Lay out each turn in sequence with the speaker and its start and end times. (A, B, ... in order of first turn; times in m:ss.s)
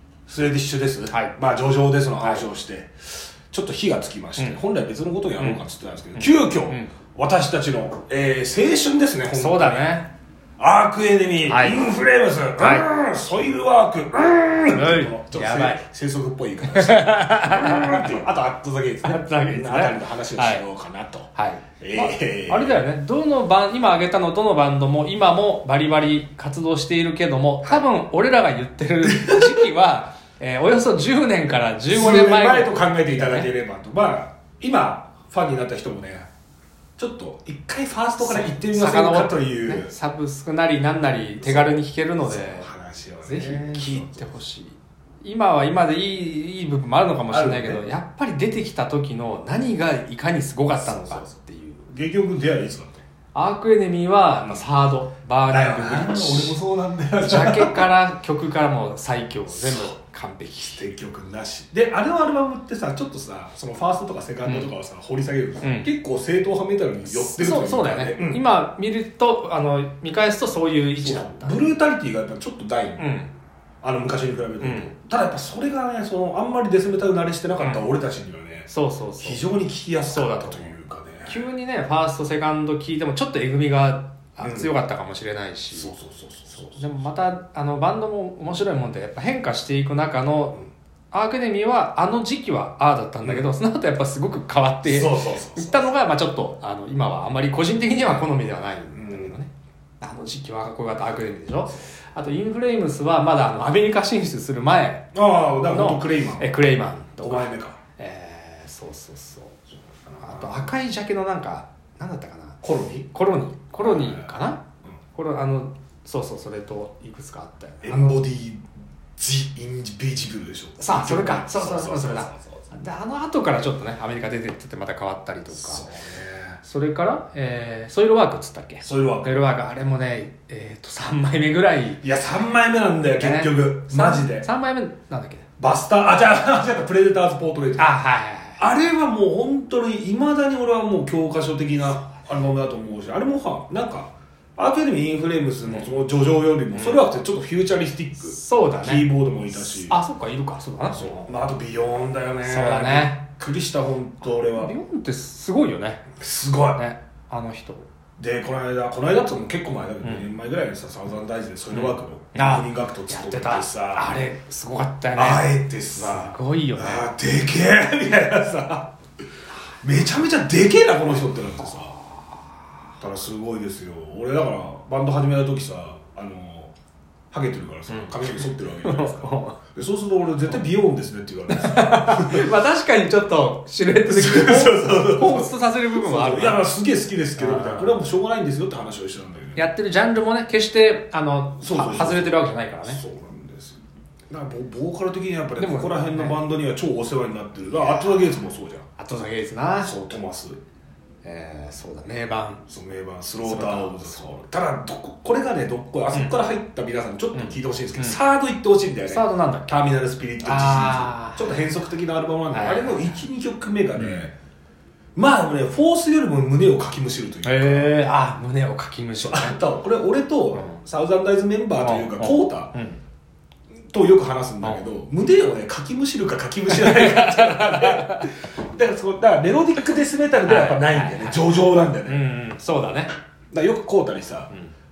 0:00.2-0:09.9 A
0:01.1-0:01.3 B
0:02.2-0:02.5 B
0:06.2-0:06.9 B
0:09.3-0:10.1 B
0:10.6-0:21.3 A
0:11.4-0:11.9 B
0:12.6-0:12.9 B
0:14.7-0:15.8 B
0:16.7-0:18.2 B
0:19.0-0:20.6 B
0:21.3-0:33.5 B
0:21.8-0:22.9 A
0:29.0-0:29.6 A
0:31.9-0:36.3 A
0:37.0-0:39.9 A
0:38.2-0:42.7 B
0:41.4-0:44.3 A
0:43.2-0:51.9 B
0:47.3-0:47.8 A
0:50.8-0:51.3 A
0:51.9-0:53.0 A
0:53.3-0:56.6 B
0:55.5-0:57.9 A
0:57.2-1:00.8 B
0:59.5-0:59.9 A
1:00.6-1:08.4 A
1:04.4-1:04.7 B
1:05.6-1:05.9 B
1:07.0-1:11.7 B
1:11.0-1:13.1 A
1:13.0-1:13.3 B
1:13.8-1:18.7 A
1:14.6-1:14.9 B
1:17.6-1:17.9 B
1:18.7-1:19.5 B
1:19.2-1:21.4 A
1:20.1-1:20.7 B
1:21.3-1:25.9 B
1:24.4-1:24.7 A
1:25.7-1:26.8 A
1:26.5-1:30.6 B
1:31.1-1:45.1 B
1:34.8-1:35.9 A
1:38.9-1:39.4 A
1:45.1-1:46.6 A
1:45.7-1:49.6 B
1:47.2-1:47.8 A
1:50.0-1:50.7 A
1:50.2-1:54.6 B
1:52.6-1:53.1 A
1:53.8-1:54.3 A
1:55.1-1:58.2 B
1:57.8-1:58.6 A
1:59.2-2:02.6 A
2:00.8-2:05.9 B
2:05.5-2:06.6 A
2:06.6-2:12.0 B
2:08.8-2:09.4 A
2:12.0-2:14.5 A
2:13.1-2:15.5 B
2:15.6-2:17.9 A
2:17.8-2:18.6 B
2:18.6-2:30.0 A
2:25.6-2:25.9 B
2:26.7-2:27.0 B
2:28.2-2:31.3 B
2:30.8-2:34.7 A
2:32.4-2:33.2 B
2:34.2-2:36.1 B
2:36.2-2:36.8 A
2:36.7-2:37.9 B
2:38.2-2:44.3 A
2:40.0-2:40.3 B
2:41.7-2:47.1 B
2:45.1-2:48.9 A
2:49.8-2:52.0 A
2:53.0-2:56.7 A
2:57.3-3:02.5 A
2:57.9-2:59.6 B
3:01.5-3:06.6 B
3:04.0-3:09.7 A
3:07.4-3:08.0 B
3:09.6-3:13.0 B
3:11.6-3:18.9 A
3:15.6-3:16.4 B
3:17.8-3:19.9 B
3:19.8-3:20.6 A
3:21.2-3:22.7 B
3:22.7-3:34.3 A
3:23.4-3:24.4 B
3:26.1-3:26.4 B
3:27.3-3:28.2 B
3:29.1-3:29.7 B
3:30.4-3:31.6 B
3:32.5-3:33.2 B
3:34.0-3:34.3 B
3:35.1-3:38.0 A
3:37.4-3:39.6 B
3:39.2-3:42.7 A
3:40.5-3:40.8 B
3:41.8-3:43.0 B
3:43.9-3:52.2 A
3:46.7-3:48.3 B
3:50.4-3:51.5 B
3:52.0-3:53.1 B
3:53.5-3:54.5 A